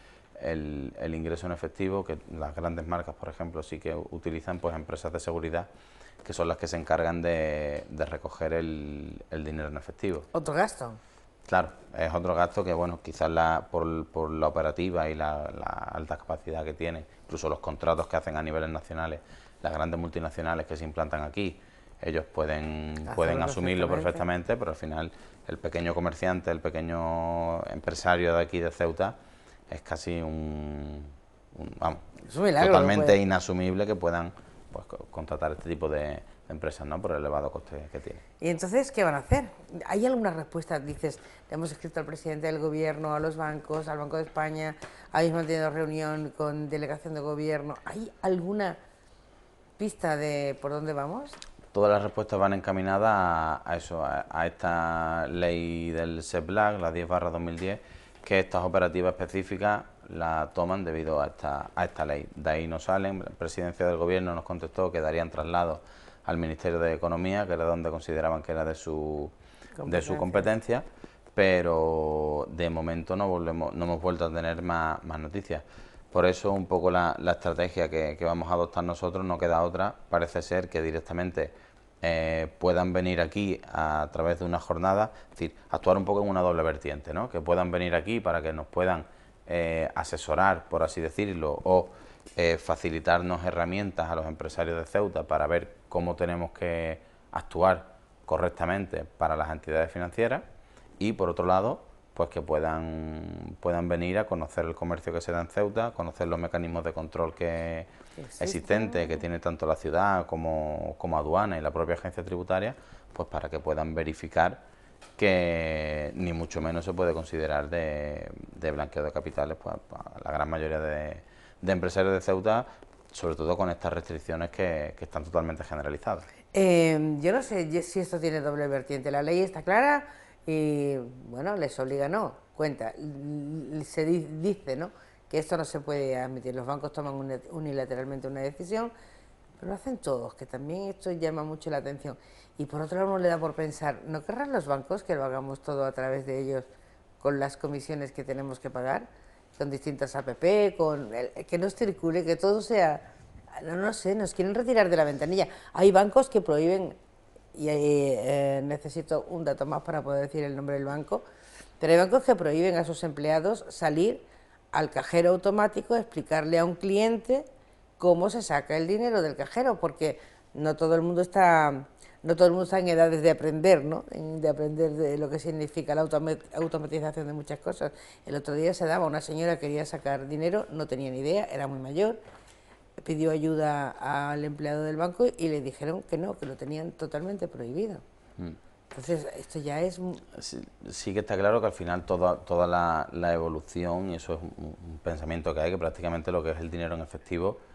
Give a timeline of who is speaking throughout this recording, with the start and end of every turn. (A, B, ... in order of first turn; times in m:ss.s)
0:00.4-0:05.7 A
0:06.2-0:10.3 A
0:10.3-0:11.0 B
0:11.5-0:29.2 A
0:23.0-0:24.2 B
0:29.7-0:38.2 A
0:32.2-0:33.2 B
0:38.4-0:48.8 B
0:49.8-0:51.4 B
0:51.7-1:09.3 A
1:09.8-1:10.5 B
1:09.9-1:40.4 A
1:41.0-1:54.6 A
1:48.2-1:49.1 B
1:55.2-2:06.3 A
2:06.5-2:18.9 B
2:19.6-2:26.6 B
2:27.2-2:33.0 B
2:33.6-2:37.0 B
2:37.5-2:41.2 B
2:41.8-2:47.5 B
2:48.0-3:02.2 B
3:03.0-3:08.0 B
3:08.9-3:10.2 B
3:10.3-3:17.6 A